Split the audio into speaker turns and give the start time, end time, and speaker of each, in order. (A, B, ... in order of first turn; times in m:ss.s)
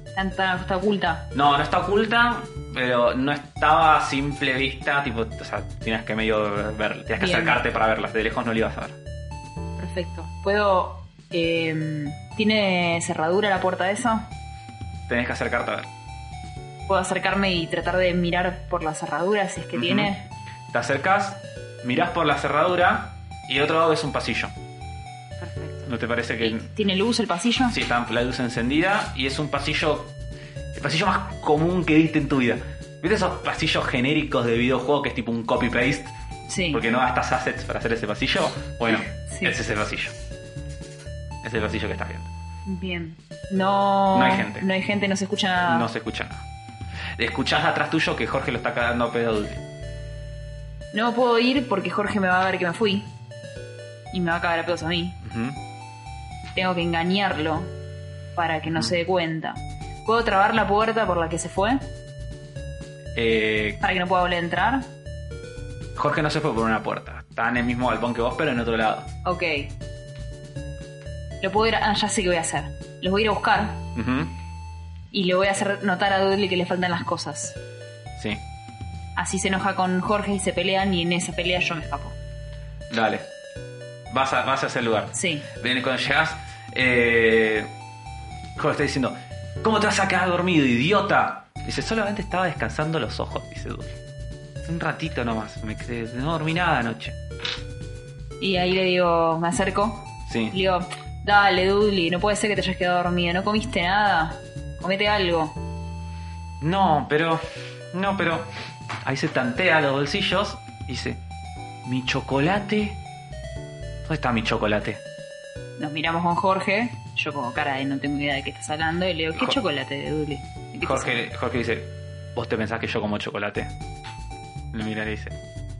0:00.1-0:01.3 A
0:01.3-0:09.0 B
0:07.2-0:07.6 A
0:09.8-0:14.3 A
0:15.1-0:15.9 B
0:16.9-0:20.2 A
0:19.7-0:20.1 B
0:20.7-0:24.5 B
0:25.4-0:25.9 A
0:25.8-0:26.7 B
0:26.4-0:27.7 A
0:27.7-0:30.1 B
0:30.7-0:36.1 B
0:36.5-0:36.8 A
0:36.7-0:40.1 B
0:41.4-0:42.3 B
0:42.6-0:45.9 A
0:44.1-0:44.7 B
0:45.7-0:46.4 B
0:47.2-0:49.6 B
0:50.9-0:53.1 A
0:54.1-0:55.2 A
0:55.2-0:55.6 B
0:56.5-0:57.7 A
0:58.3-1:01.8 A
1:03.1-1:03.8 B
1:03.8-1:04.9 A
1:06.0-1:09.1 B
1:09.2-1:09.7 A
1:11.4-1:13.8 A
1:13.9-1:14.4 B
1:15.1-1:17.6 A
1:19.2-1:22.1 A
1:22.9-1:23.2 B
1:24.1-1:27.7 B
1:25.1-1:25.5 A
1:28.6-1:33.9 B
1:34.6-1:37.2 B
1:38.4-1:45.6 A
1:40.3-1:40.6 B
1:46.6-1:48.5 B
1:49.0-1:51.2 B
1:51.8-1:53.0 B
1:54.0-1:55.0 B
1:55.8-2:01.2 A
2:00.8-2:03.7 B
2:04.7-2:05.4 B